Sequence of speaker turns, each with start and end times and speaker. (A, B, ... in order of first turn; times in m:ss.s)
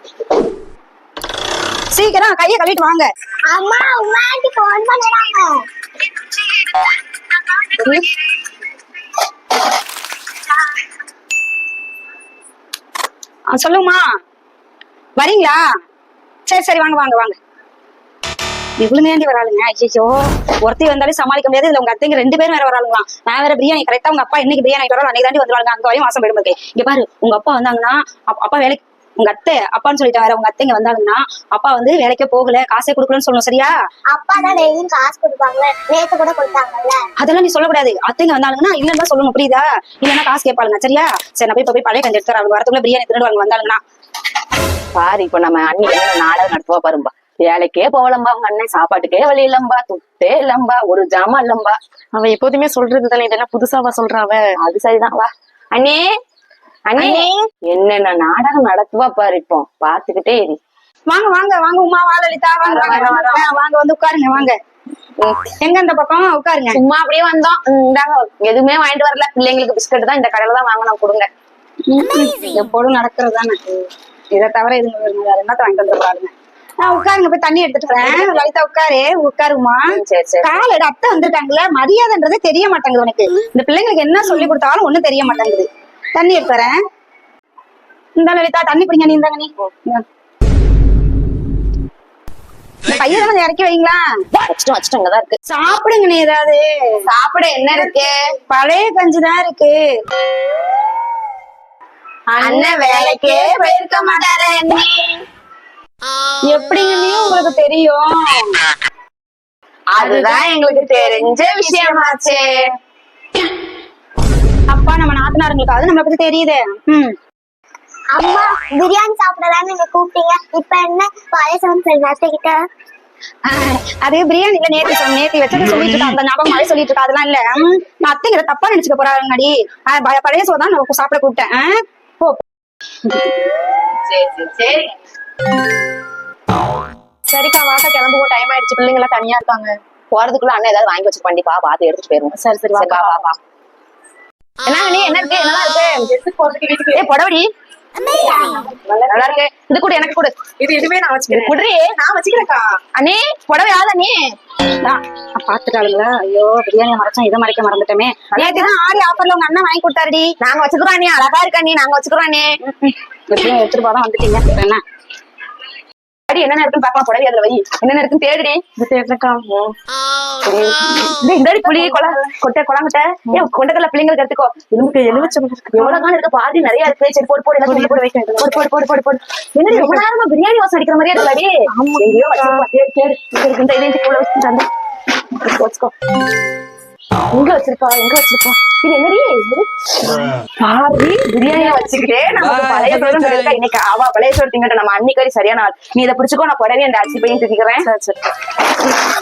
0:01.9-0:03.1 A
0:03.5-0:05.6 B
0:13.5-0:14.0 A
0:15.2-0:15.6 A
0:16.5-0:17.4 A
0:18.8-0:33.7 A
0:34.1-0:37.0 B
0:37.2-0:43.8 A
0:44.9-0:51.8 C
0:52.1-0:54.6 D
0:54.6-0:56.0 C
0:56.9-1:00.6 C
0:57.0-0:57.5 B
1:01.1-1:04.6 A
1:02.6-1:03.5 C
1:05.2-1:05.5 C
1:05.6-1:06.8 A
1:06.7-1:11.3 C
1:11.9-1:13.8 A
1:14.3-1:19.9 A
1:18.0-1:18.4 C
1:19.9-1:20.6 C
1:20.4-1:26.8 A
1:28.2-1:30.0 A
1:32.9-1:34.0 A
1:34.3-1:35.4 C
1:35.5-1:36.6 A
1:37.0-1:38.1 C
1:38.5-1:39.8 A
1:42.4-1:44.8 C
1:42.4-1:44.8 A
1:46.5-1:48.6 A
1:50.0-1:52.7 C
1:51.7-1:52.0 A
1:54.7-1:57.2 A
1:58.1-2:02.6 B
2:03.4-2:12.4 A
2:14.1-2:14.9 D
2:17.3-2:19.8 D
2:20.1-2:23.3 C
2:22.3-2:23.3 D
2:24.6-2:25.9 C
2:26.1-2:27.0 D
2:26.9-2:27.5 C
2:28.1-2:29.3 D
2:29.1-2:30.3 C
2:30.6-2:32.8 D
2:31.3-2:31.6 C
2:33.0-2:34.2 C
2:34.8-2:40.3 A
2:38.3-2:38.7 C
2:40.4-2:42.5 C
2:42.6-2:44.8 A
2:46.3-2:48.7 C
2:48.8-2:49.6 D
2:50.4-3:04.7 C
2:54.8-2:56.0 D
2:57.6-2:58.7 D
2:59.7-3:00.0 D
3:01.8-3:02.6 D
3:05.4-3:05.9 C
3:07.3-3:17.9 C
3:17.8-3:18.1 D